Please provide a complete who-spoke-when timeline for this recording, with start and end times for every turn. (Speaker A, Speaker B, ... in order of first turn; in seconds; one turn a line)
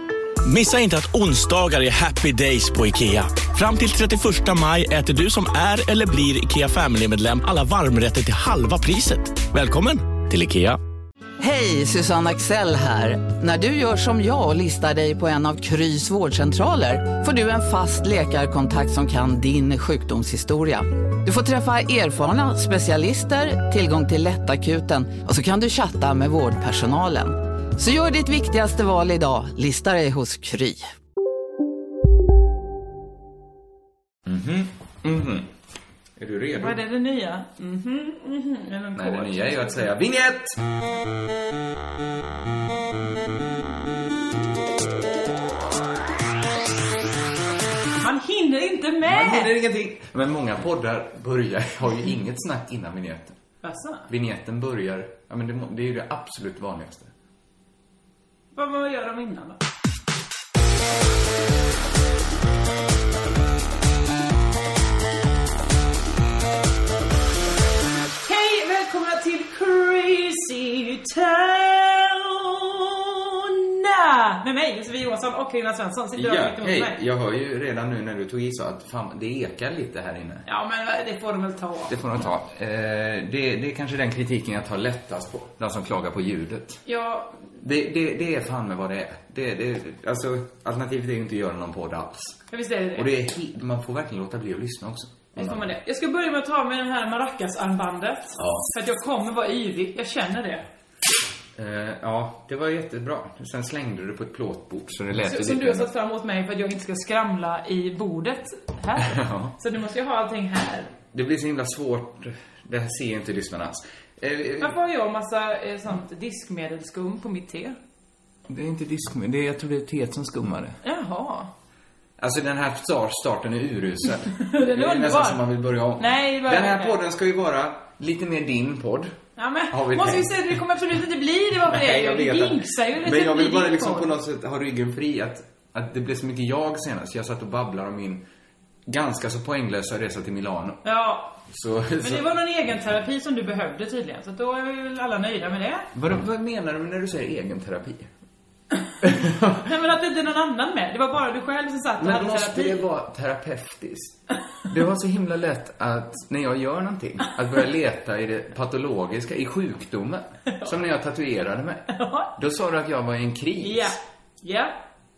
Speaker A: 0.4-10.8
Speaker B: 11.4-30.9
Speaker C: 34.2-35.5
Speaker C: 36.2-36.8
Speaker D: 36.5-39.9
Speaker C: 38.9-40.6
Speaker D: 48.0-49.5
Speaker C: 49.0-53.4
Speaker D: 53.6-54.1
Speaker C: 54.1-57.1
Speaker D: 58.5-59.6
Speaker D: 68.2-77.0
Speaker C: 76.1-80.5
Speaker D: 80.5-82.0
Speaker C: 81.9-86.8
Speaker D: 86.8-87.4
Speaker C: 87.6-92.4
Speaker D: 92.5-93.1
Speaker C: 92.9-95.7
Speaker D: 95.3-100.7
Speaker C: 98.4-98.7
Speaker C: 101.5-105.9
Speaker D: 105.2-110.9
Speaker C: 109.0-109.5
Speaker C: 111.1-114.8
Speaker D: 114.6-117.8
Speaker C: 118.5-120.8
Speaker D: 120.8-121.5
Speaker C: 122.2-129.2
Speaker D: 124.4-127.0
Speaker D: 129.4-134.1
Speaker C: 129.7-130.5
Speaker C: 131.6-138.2
Speaker C: 138.9-140.8
Speaker D: 140.8-141.4
Speaker C: 141.5-142.3
Speaker D: 142.0-145.9
Speaker C: 145.9-148.1
Speaker C: 149.0-149.6
Speaker D: 149.6-152.8
Speaker C: 152.0-154.2
Speaker C: 154.7-163.9
Speaker D: 160.5-160.7
Speaker D: 161.9-162.3
Speaker D: 163.6-164.8